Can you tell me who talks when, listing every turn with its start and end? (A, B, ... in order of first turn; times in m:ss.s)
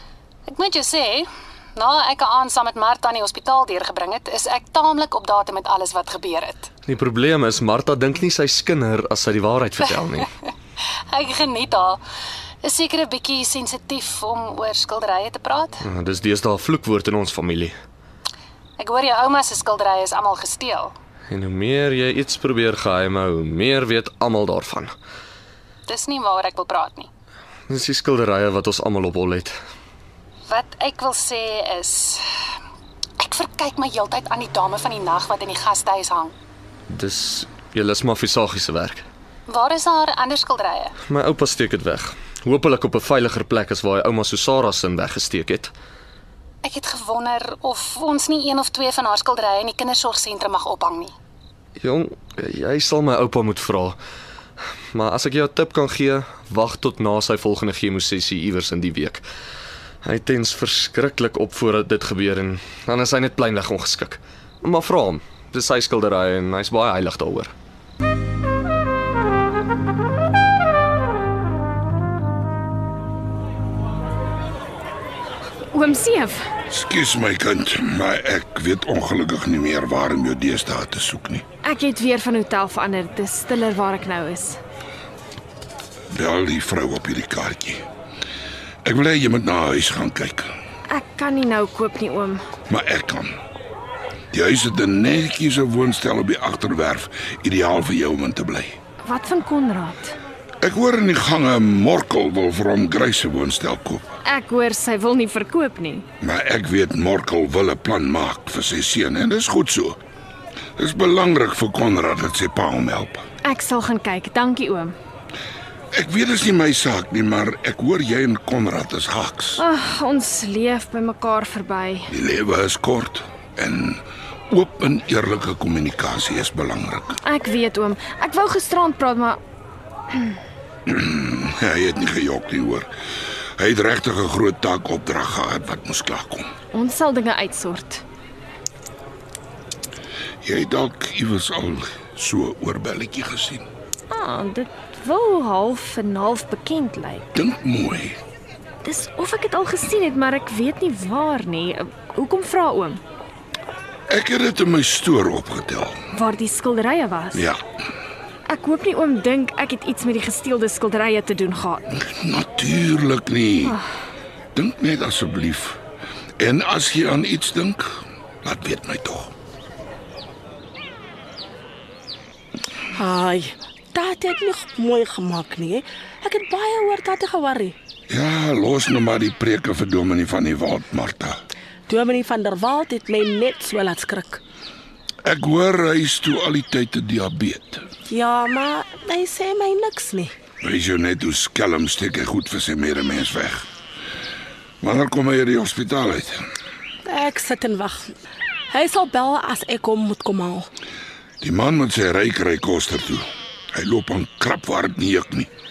0:00.5-0:06.7 A
0:06.9-0:10.3 B
0:10.8-0:12.0 A
0:12.6-0:15.8 A
0:15.8-0:17.8 B
0:18.8-0:20.9 A
0:21.3-0:24.9 B
0:25.9-0:27.1 A
0:27.7-0:29.6 B
0:30.5-0:32.2 A
0:33.2-0:36.4 A
0:36.9-0:39.1 B
0:39.5-0:41.0 A
0:41.1-0:45.7 B
0:46.6-0:51.1 A
0:51.8-0:54.0 B
0:54.9-0:59.2 B
1:00.0-1:07.5 B
1:15.7-1:16.4 C
1:16.7-1:21.4 D
1:21.6-1:24.6 C
1:26.1-1:27.8 D
1:28.8-1:30.5 D
1:30.9-1:32.4 C
1:32.7-1:33.4 D
1:34.3-1:38.8 D
1:39.0-1:40.2 C
1:40.6-1:44.1 D
1:44.2-1:46.1 C
1:46.2-1:50.0 D
1:50.8-1:53.2 D
1:53.4-1:55.0 C
1:55.9-1:59.6 D
1:59.6-2:02.1 C
2:02.1-2:07.2 D
2:07.2-2:09.4 C
2:10.1-2:10.4 C
2:10.9-2:12.9 D
2:13.6-2:16.5 D
2:16.7-2:18.0 C
2:20.4-2:23.7 D
2:24.1-2:27.3 C
2:27.4-2:28.2 D
2:28.8-2:33.0 C
2:34.1-2:36.0 D
2:36.1-2:37.4 C
2:37.3-2:37.6 D
2:38.5-2:41.9 C
2:42.1-2:43.8 D
2:44.6-2:45.8 D
2:46.4-2:49.3 D
2:52.9-2:57.8 E
2:58.1-3:01.4 D
3:01.9-3:04.4 E
3:05.2-3:07.9 D
3:08.1-3:10.3 E
3:10.6-3:13.7 D
3:14.8-3:16.4 D
3:17.0-3:18.1 E
3:18.7-3:20.7 E
3:21.4-3:25.5 D